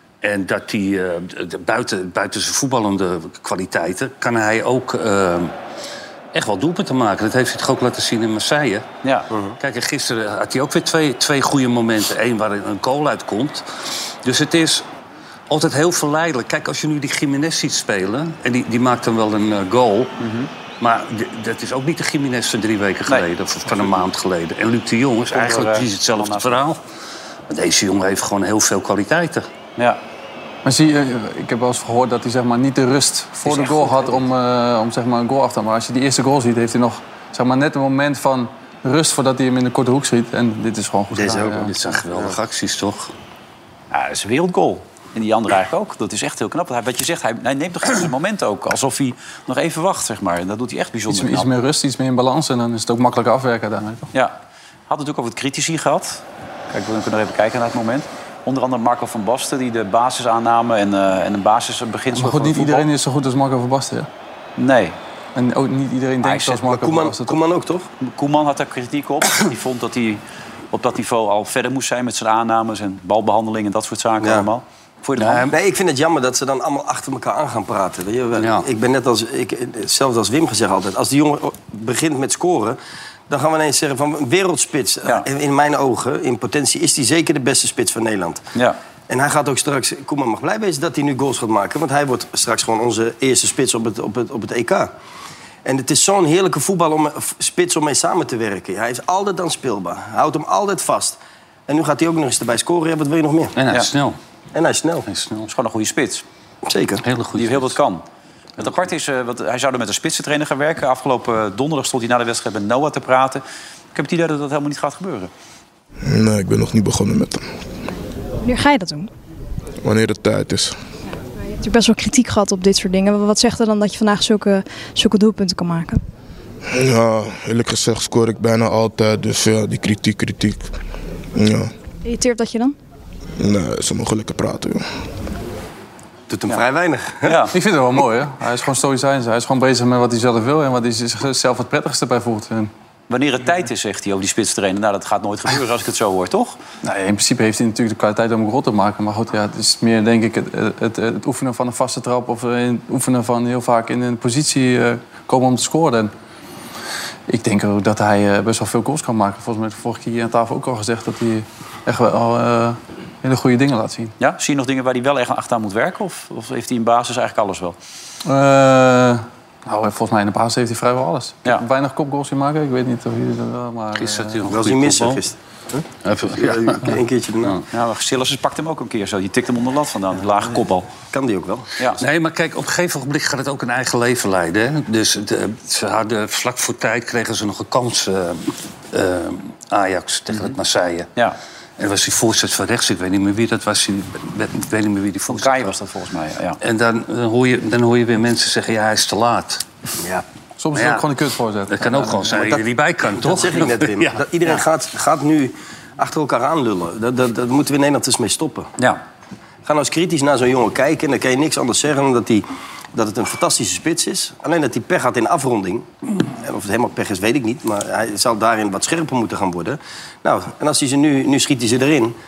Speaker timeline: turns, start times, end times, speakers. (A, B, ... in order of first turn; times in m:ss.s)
0:00.2-0:05.5 A
0:06.3-0:08.9 A
0:09.3-0:09.6 B
0:09.6-0:14.9 A
0:15.5-0:20.2 A
0:20.2-0:20.5 C
0:20.8-0:26.8 A
0:23.1-0:24.0 C
0:25.3-0:26.6 C
0:27.5-0:29.5 A
0:30.6-0:41.7 D
0:33.6-0:34.1 C
0:41.1-0:42.4 B
0:41.6-0:43.1 A
0:43.9-0:51.5 C
0:51.1-0:54.1 D
0:54.9-1:02.9 C
1:02.1-1:04.1 D
1:04.6-1:05.0 C
1:05.4-1:07.4 D
1:06.2-1:06.6 C
1:06.6-1:07.9 B
1:08.0-1:15.5 C
1:14.2-1:14.5 B
1:15.2-1:15.5 A
1:15.5-1:22.8 B
1:18.4-1:18.7 A
1:23.3-1:28.4 B
1:29.1-1:34.9 B
1:35.6-1:43.6 B
1:43.6-1:44.2 A
1:44.5-1:45.1 B
1:45.1-1:45.5 A
1:45.5-1:46.2 C
1:46.7-1:47.0 B
1:47.0-1:47.8 A
1:47.4-1:48.0 C
1:48.6-1:53.4 C
1:53.9-1:55.3 C
1:56.0-1:57.4 E
1:58.4-1:59.1 F
1:59.8-2:00.8 E
2:01.6-2:06.0 F
2:06.7-2:10.7 E
2:11.4-2:11.7 E
2:12.0-2:12.8 F
2:13.4-2:14.8 E
2:16.3-2:17.4 B
2:17.2-2:17.5 C
2:17.5-2:22.7 D
2:23.1-2:26.6 C
2:26.8-2:36.1 D
2:37.3-2:44.1 D
2:44.2-2:47.8 C
2:48.2-2:54.5 D
2:54.0-2:55.2 A
2:54.5-2:57.6 B
2:56.0-2:57.6 A
2:57.7-3:00.9 C
3:01.1-3:01.8 B
3:02.0-3:11.1 A
3:11.8-3:15.8 A
3:15.3-3:16.6 C
3:16.6-3:19.6 A
3:20.0-3:20.2 B
3:20.6-3:22.4 D
3:20.7-3:21.1 A
3:21.7-3:24.2 A
3:22.3-3:28.7 B
3:29.7-3:42.2 B